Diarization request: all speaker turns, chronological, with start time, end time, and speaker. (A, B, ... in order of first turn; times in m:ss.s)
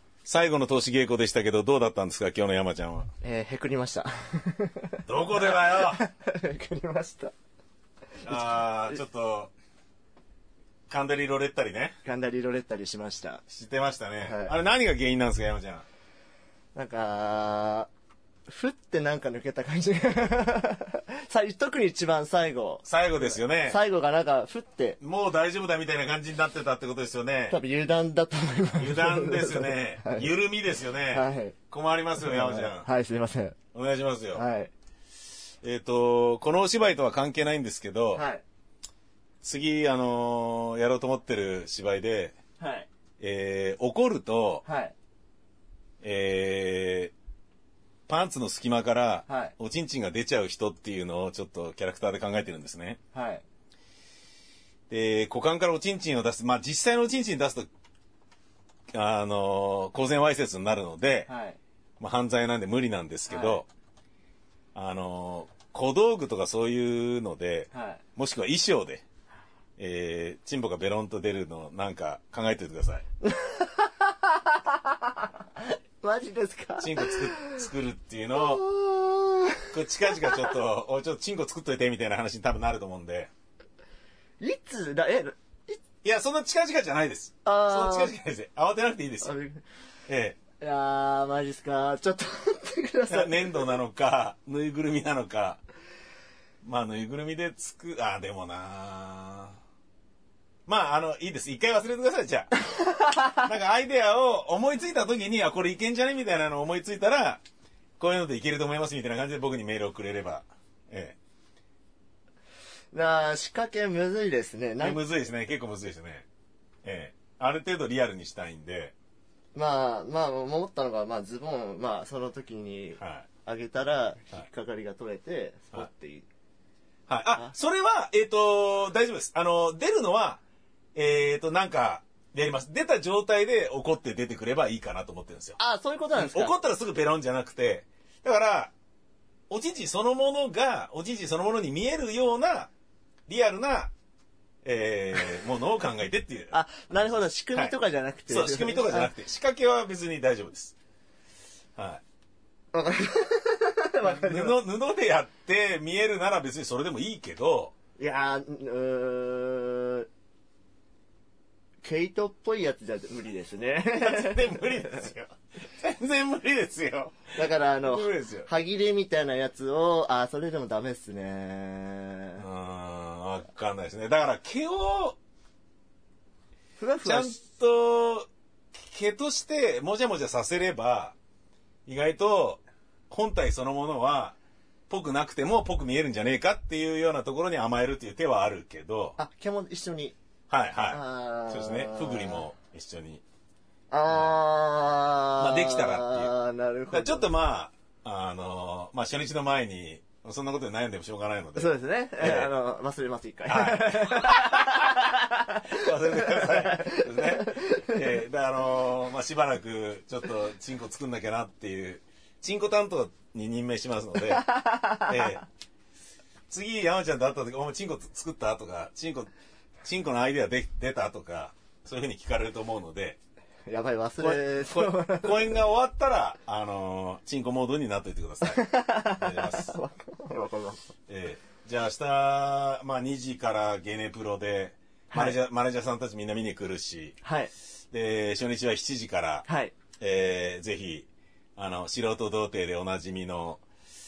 0:00.2-0:03.1 A
0:03.2-0:07.3 B
0:05.0-0:06.0 A
0:08.2-0:09.5 A
0:10.9-0:11.9 A
0:12.0-0:13.4 B
0:13.5-0:15.8 A
0:14.2-0:14.5 B
0:16.7-0:17.9 B
0:18.5-0:25.0 B
0:22.8-0:23.8 A
0:25.0-0:27.6 A
0:27.5-0:30.3 B
0:28.8-0:32.9 A
0:31.0-0:31.6 B
0:32.2-0:33.6 B
0:33.7-0:34.4 A
0:34.3-0:34.7 B
0:35.6-0:38.2 A
0:38.1-0:38.4 B
0:39.4-0:42.3 A
0:42.6-0:42.9 B
0:43.2-0:44.6 A
0:44.6-0:44.9 B
0:46.0-0:47.1 A
0:48.1-0:53.0 A
0:49.3-0:49.5 B
0:53.1-0:53.4 B
0:54.9-0:57.7 A
0:58.9-1:01.3 A
1:01.3-1:01.6 B
1:02.0-1:03.7 A
1:03.3-1:03.6 B
1:04.7-1:09.0 A
1:07.7-1:08.0 B
1:09.8-1:13.0 A
1:13.2-1:14.8 B
1:16.0-1:17.5 B
1:16.8-1:18.6 A
1:18.4-1:19.6 B
1:19.7-1:23.3 A
1:24.4-1:25.8 B
1:26.0-1:29.3 A
1:27.4-1:28.1 B
1:29.2-1:29.6 B
1:30.1-1:30.4 A
1:30.6-1:33.6 B
1:33.1-1:35.6 A
1:36.6-1:39.6 A
1:40.7-1:47.4 A
1:48.0-1:51.2 A
1:52.9-1:55.0 B
1:54.8-1:56.3 A
1:56.8-1:58.9 A
1:59.5-2:06.3 B
2:03.0-2:03.2 A
2:07.1-2:10.4 A
2:10.9-2:15.6 A
2:15.6-2:16.5 B
2:16.2-2:18.7 A
2:19.5-2:22.7 A
2:23.3-2:23.9 A
2:24.6-2:26.5 A
2:26.5-2:29.1 B
2:28.3-2:30.7 A
2:31.8-2:32.0 A
2:32.7-2:34.6 B
2:34.0-2:37.7 A
2:38.0-2:40.1 B
2:41.8-2:44.7 B
2:43.9-2:48.5 A
2:47.3-2:52.4 B
2:52.4-2:55.2 A
2:56.8-2:57.4 B
2:57.0-3:01.1 A
3:01.8-3:04.4 A
3:04.9-3:09.2 A
3:09.2-3:10.2 B
3:10.5-3:13.2 A
3:10.8-3:12.4 B
3:13.9-3:17.2 B
3:14.1-3:14.3 A
3:15.4-3:16.3 A
3:16.9-3:22.5 A
3:21.6-3:27.8 B
3:23.5-3:25.0 A
3:25.7-3:35.4 A
3:34.6-3:35.0 B
3:36.5-3:39.3 A
3:39.8-3:43.2 A
3:43.7-3:45.5 B
3:44.2-3:49.8 A
3:48.5-3:50.8 B
3:51.1-3:57.2 A
3:55.1-3:55.4 B
3:57.2-3:57.5 B
3:57.9-3:59.5 A
3:59.5-3:59.7 B
4:00.0-4:03.6 A